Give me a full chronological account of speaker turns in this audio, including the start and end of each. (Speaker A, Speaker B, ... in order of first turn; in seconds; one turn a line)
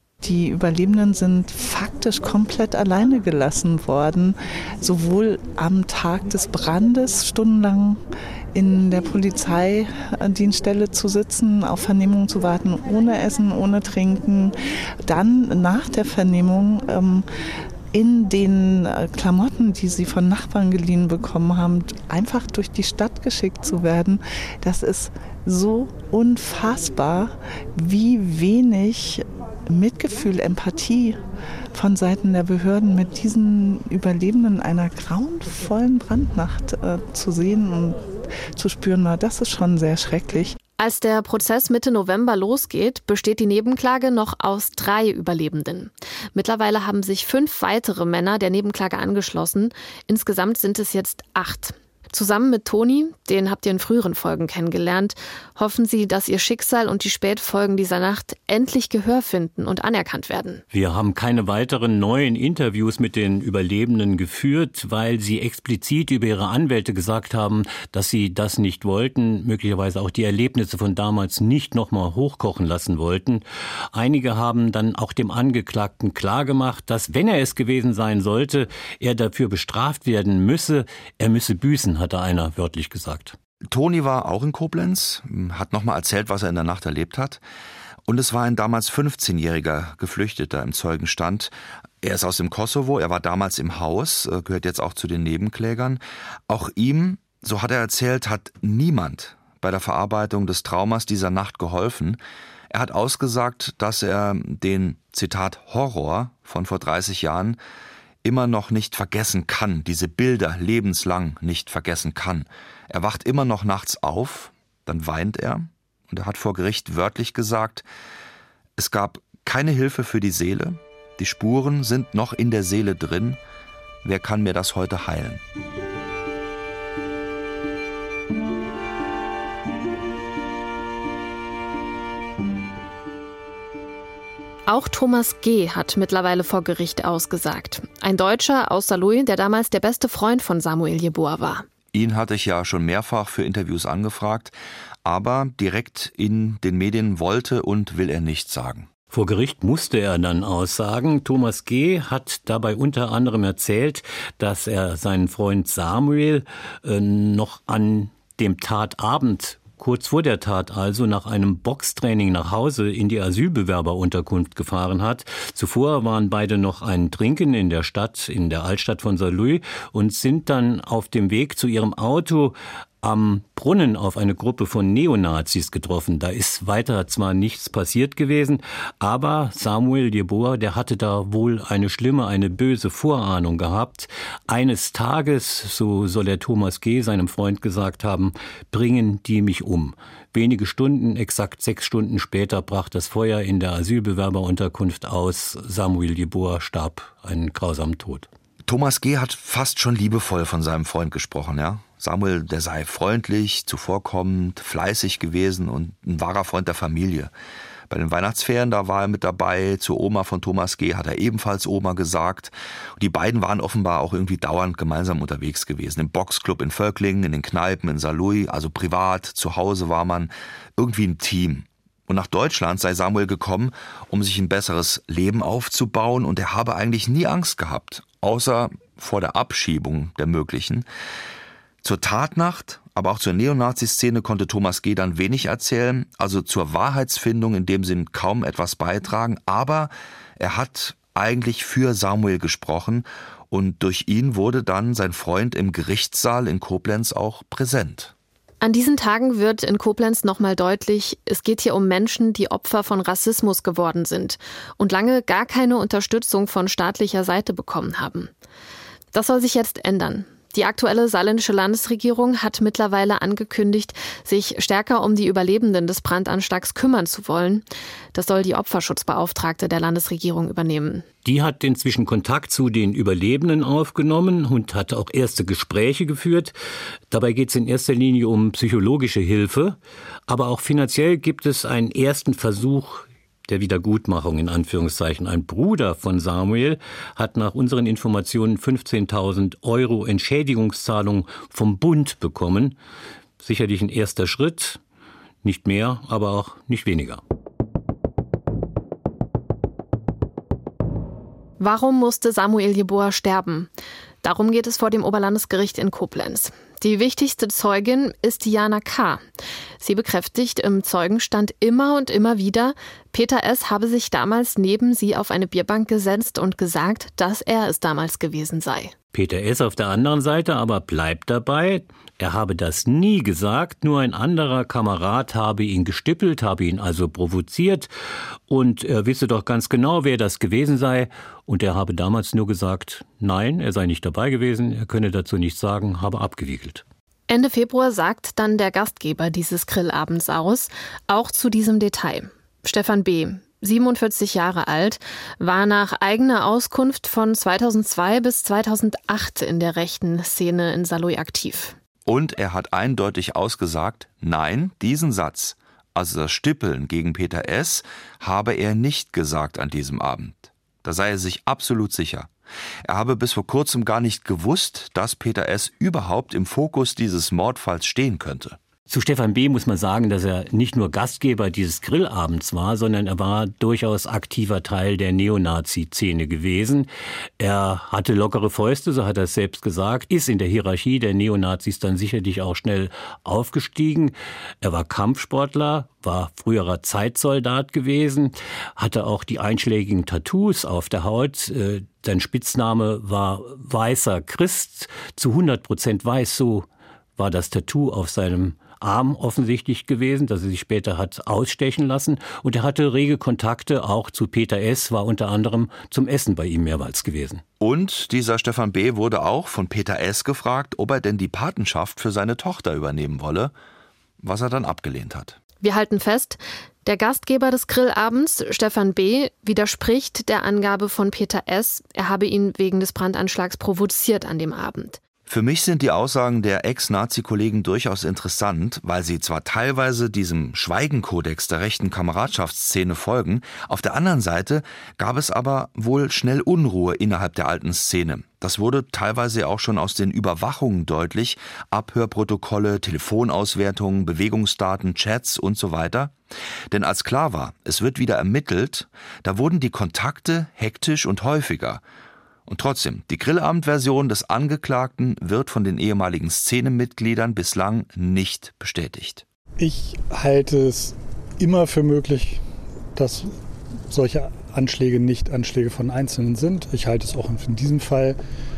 Speaker A: 0.2-8.0
Speaker A: 8.5-17.2
Speaker A: 17.9-40.5
Speaker B: 40.8-60.6
Speaker C: 60.7-83.3
Speaker D: 83.7-87.4
Speaker D: 88.0-102.2
Speaker D: 102.7-107.6
Speaker D: 108.2-117.8
Speaker D: 118.8-123.4
Speaker D: 124.0-125.4
Speaker B: 134.7-141.7
Speaker D: 141.9-148.9
Speaker C: 149.1-198.3
Speaker D: 198.7-207.3
Speaker D: 207.9-230.9
Speaker D: 231.8-248.1
Speaker B: 248.6-258.3
Speaker B: 259.1-271.0
Speaker C: 271.2-276.5
Speaker C: 277.1-292.8
Speaker C: 293.4-294.8
Speaker C: 295.4-297.2
Speaker B: 301.6-303.7
Speaker B: 304.2-309.2
Speaker B: 309.8-318.9
Speaker C: 319.1-327.9
Speaker C: 328.5-336.8
Speaker B: 337.3-351.8
Speaker D: 352.1-362.3
Speaker D: 362.9-368.6
Speaker C: 368.9-396.6
Speaker C: 397.2-407.4
Speaker D: 407.6-413.5
Speaker D: 414.2-415.4
Speaker B: 415.6-425.0
Speaker D: 425.2-446.1
Speaker D: 446.7-451.8
Speaker D: 452.5-459.2
Speaker E: 459.6-462.4
Speaker E: 462.9-463.3
Speaker E: 463.9-468.2